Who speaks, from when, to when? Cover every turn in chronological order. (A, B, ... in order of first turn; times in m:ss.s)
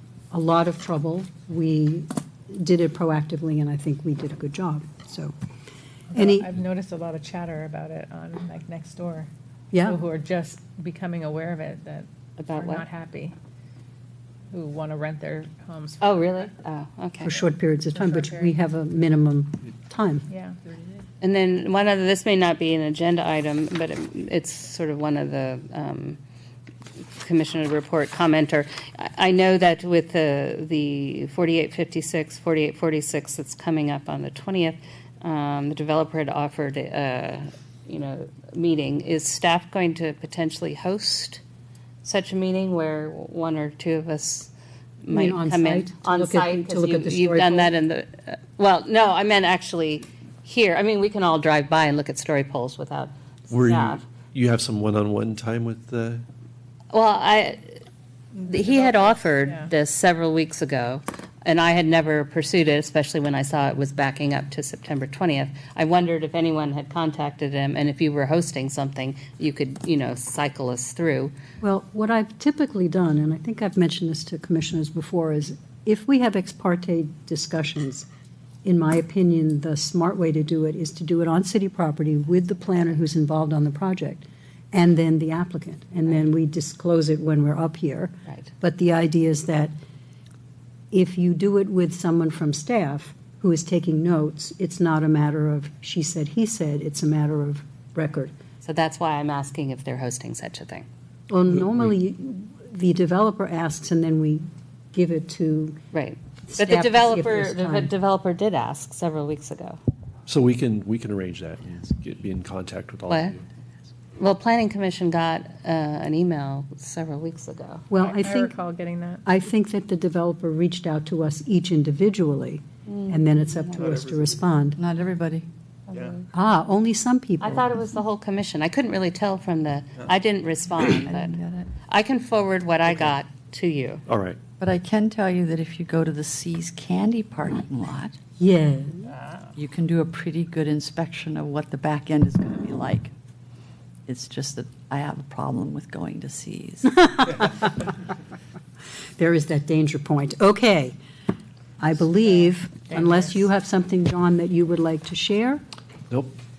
0:00.3-0:05.3 A
0:06.1-0:09.3 B
0:06.1-0:06.5 A
0:09.7-0:10.0 A
0:09.9-0:13.3 B
0:12.4-0:12.8 C
0:14.5-0:16.3 B
0:16.0-0:17.3 C
0:17.2-0:20.2 A
0:17.9-0:18.5 B
0:20.3-0:20.6 B
0:21.2-0:26.2 C
0:27.1-0:41.4 C
0:42.0-0:44.5 C
0:45.0-0:54.0 C
0:45.1-0:47.7 A
0:53.5-0:56.2 D
0:56.9-0:57.8 C
0:58.4-1:11.3 C
0:58.6-0:59.6 B
1:11.6-1:18.1 A
1:18.6-1:29.7 A
1:30.9-1:38.3 A
1:38.6-1:40.8 C
1:41.3-1:45.8 A
1:45.9-1:49.8 C
1:46.4-1:47.9 A
1:50.3-1:53.4 D
1:53.1-1:53.3 C
1:54.2-1:57.8 C
1:57.9-1:58.5 A
1:58.0-1:59.2 B
1:59.2-2:04.8 A
2:02.9-2:03.9 C
2:04.8-2:05.5 E
2:05.9-2:06.2 C
2:06.3-2:07.6 A
2:07.4-2:14.0 C
2:10.9-2:11.7 E
2:14.1-2:14.4 D
2:14.6-2:18.2 E
2:18.4-2:19.1 A
2:19.6-2:23.1 E
2:24.1-2:27.1 E
2:26.9-2:27.9 A
2:29.2-2:31.0 A
2:31.8-2:35.6 A
2:32.9-2:33.3 B
2:36.1-2:36.4 D